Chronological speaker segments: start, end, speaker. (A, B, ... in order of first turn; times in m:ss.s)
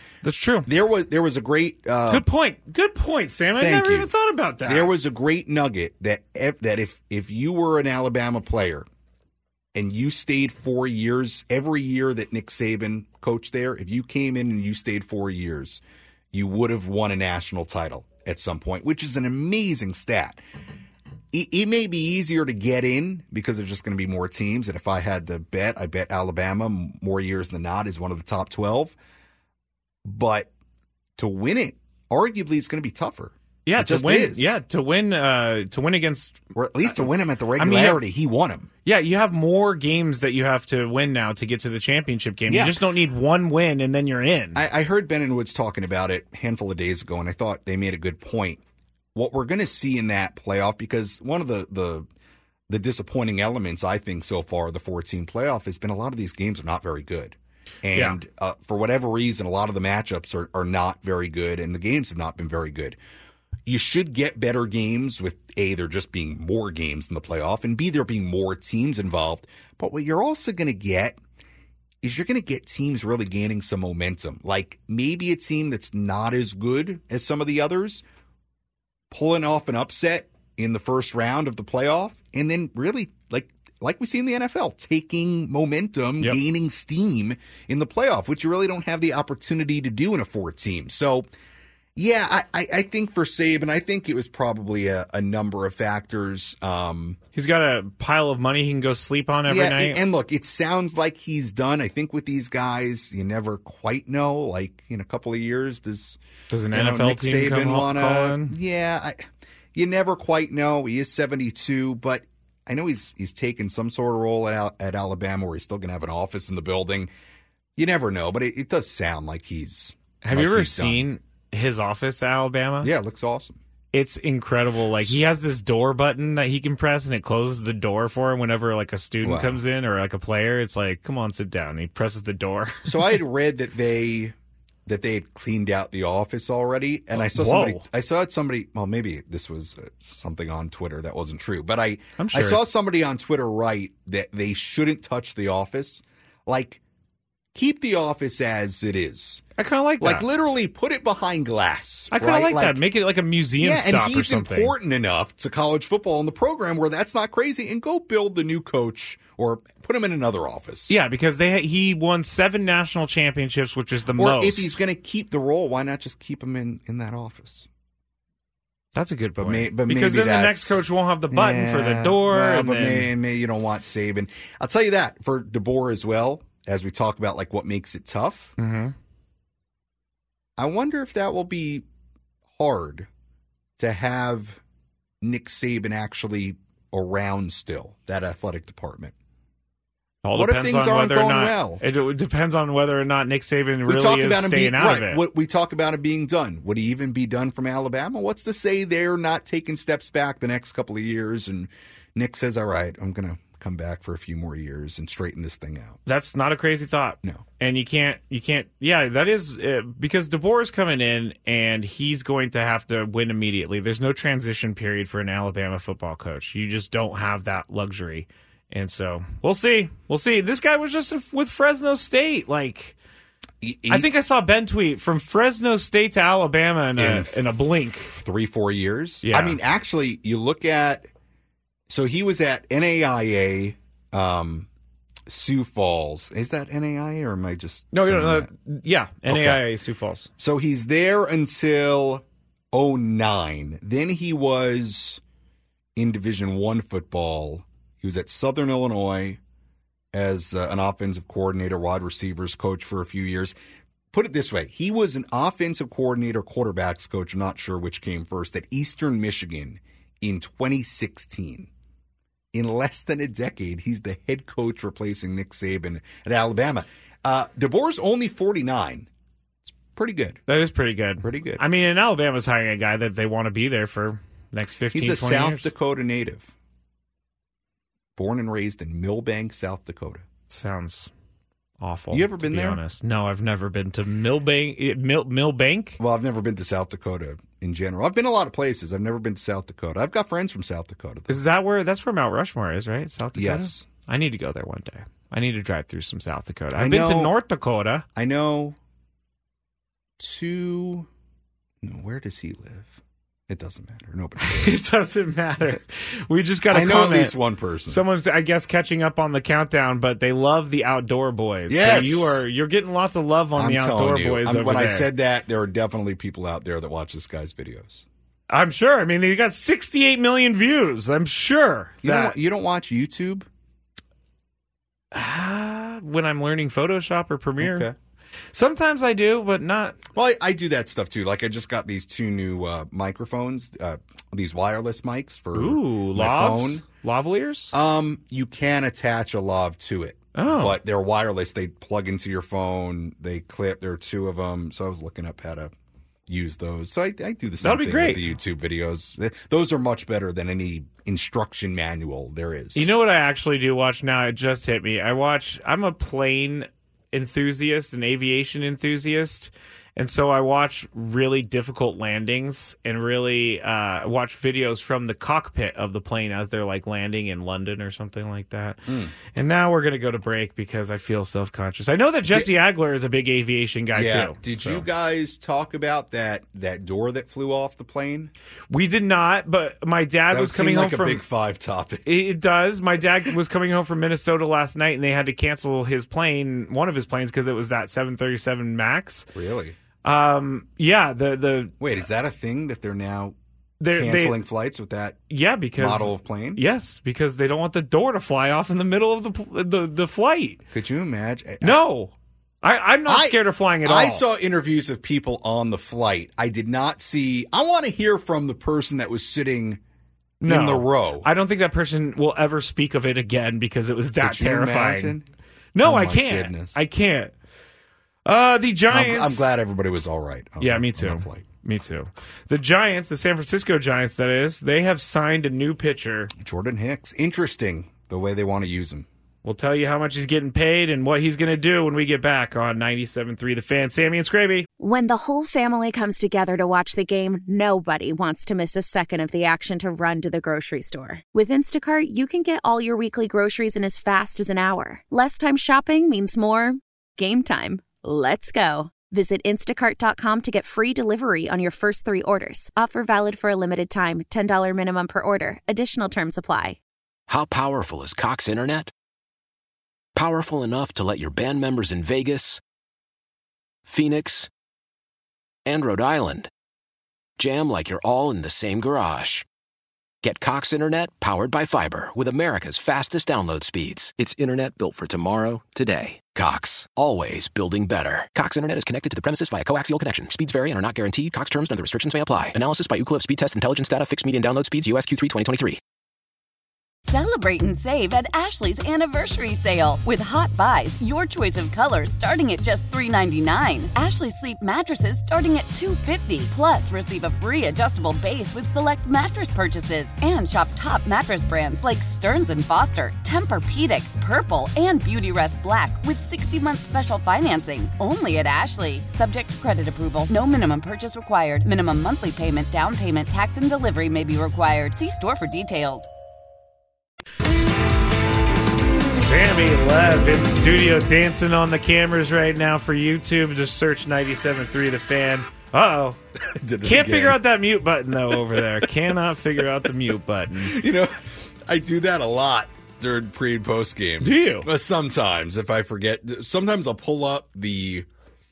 0:00.2-0:00.7 A
0:00.6-0:02.2 B
0:02.1-0:04.9 A
0:03.6-0:04.1 B
0:04.6-0:08.8 B
0:09.7-0:20.4 B
0:21.3-0:28.9 B
0:30.0-0:30.5 B
0:31.2-0:34.6 B
0:33.6-0:36.9 A
0:36.5-0:38.7 B
0:37.6-0:38.0 A
0:38.8-0:44.6 A
0:42.5-0:42.8 B
0:44.5-0:48.6 B
0:49.1-0:52.1 B
0:52.7-1:03.0 B
1:03.6-1:11.2 B
1:12.0-1:18.0 B
1:19.1-1:31.3 B
1:32.0-1:37.2 B
1:37.3-1:40.0 A
1:39.5-1:46.2 B
1:46.5-1:48.6 A
1:46.7-1:49.2 B
1:49.7-1:57.1 B
1:57.8-2:01.1 B
2:00.2-2:02.9 A
2:02.8-2:03.6 B
2:03.9-2:13.2 A
2:09.2-2:09.6 B
2:12.8-2:14.3 B
2:14.8-2:26.8 B
2:17.1-2:17.8 A
2:22.2-2:22.6 A
2:27.5-2:29.4 B
2:29.6-2:30.3 A
2:30.0-2:32.8 B
2:32.1-2:34.7 A
2:33.6-2:40.9 B
2:40.9-2:44.7 A
2:44.2-2:47.7 B
2:48.9-2:53.1 A
2:49.4-2:58.5 B
2:58.6-2:58.9 A
3:00.6-3:01.8 B
3:02.5-3:03.1 B
3:03.8-3:04.6 B
3:05.2-3:09.1 B
3:10.2-3:15.2 A
3:10.4-3:11.8 B
3:13.8-3:26.0 B
3:26.0-3:43.0 A
3:43.6-3:44.1 B
3:43.9-3:48.1 A
3:47.0-3:51.1 B
3:49.2-3:49.6 A
3:51.9-3:54.7 B
3:55.3-3:58.5 B
3:57.9-4:00.3 A
3:59.3-3:59.6 B
4:00.4-4:05.2 B
4:06.0-4:09.4 B
4:10.1-4:13.6 B
4:14.1-4:21.7 B
4:22.5-4:29.1 B
4:29.6-4:30.4 B
4:30.5-4:35.7 A
4:31.2-4:31.6 B
4:34.9-4:36.5 B
4:38.2-4:40.2 B
4:40.5-4:41.1 A
4:41.8-4:46.0 A
4:42.1-4:42.8 B
4:46.0-4:51.4 B
4:51.3-4:58.0 A
4:53.3-4:53.8 B
4:56.7-4:57.3 B
4:58.2-4:58.8 B
5:00.2-5:01.1 B
5:01.8-5:04.8 B
5:04.4-5:07.3 A
5:06.7-5:08.0 B
5:07.9-5:15.1 A
5:11.7-5:12.4 B
5:13.5-5:18.0 B
5:18.5-5:22.4 A
5:22.0-5:23.5 B
5:25.1-5:27.9 A
5:27.6-5:27.9 B
5:28.5-5:30.0 A
5:30.1-5:36.8 B
5:35.5-5:37.7 A
5:37.7-5:45.7 B
5:40.3-5:40.8 A
5:46.3-5:52.9 B
5:47.6-5:48.3 A
5:52.7-6:14.8 A
6:08.9-6:09.1 B
6:13.9-6:18.3 B
6:18.7-6:21.2 A
6:20.3-6:22.0 B
6:22.0-6:29.3 A
6:29.3-6:29.8 B
6:30.0-6:31.8 A
6:31.8-6:33.3 B
6:33.8-6:34.4 A
6:33.9-6:35.2 B
6:35.3-6:40.6 A
6:35.8-6:36.6 B
6:40.7-6:41.8 B
6:41.6-6:44.2 A
6:43.0-6:49.8 B
6:50.4-6:55.2 A
6:50.4-6:51.3 B
6:54.2-6:55.3 B
6:55.7-6:57.3 A
6:55.8-6:56.8 B
6:58.2-6:59.5 A
6:58.9-7:01.4 B
7:00.6-7:06.3 A
7:06.4-7:09.1 B
7:09.4-7:14.7 A
7:14.8-7:36.8 C
7:37.3-7:38.9 D
7:40.1-7:42.6 D
7:43.8-7:44.5 D
7:45.6-7:46.5 D
7:47.4-7:49.4 D
7:50.2-8:05.8 D
8:07.0-8:36.1 E
8:39.1-8:46.2 A
8:46.5-8:47.4 B
8:46.8-8:50.8 A
8:48.5-8:48.8 B
8:50.5-8:58.1 B
8:54.2-8:54.7 A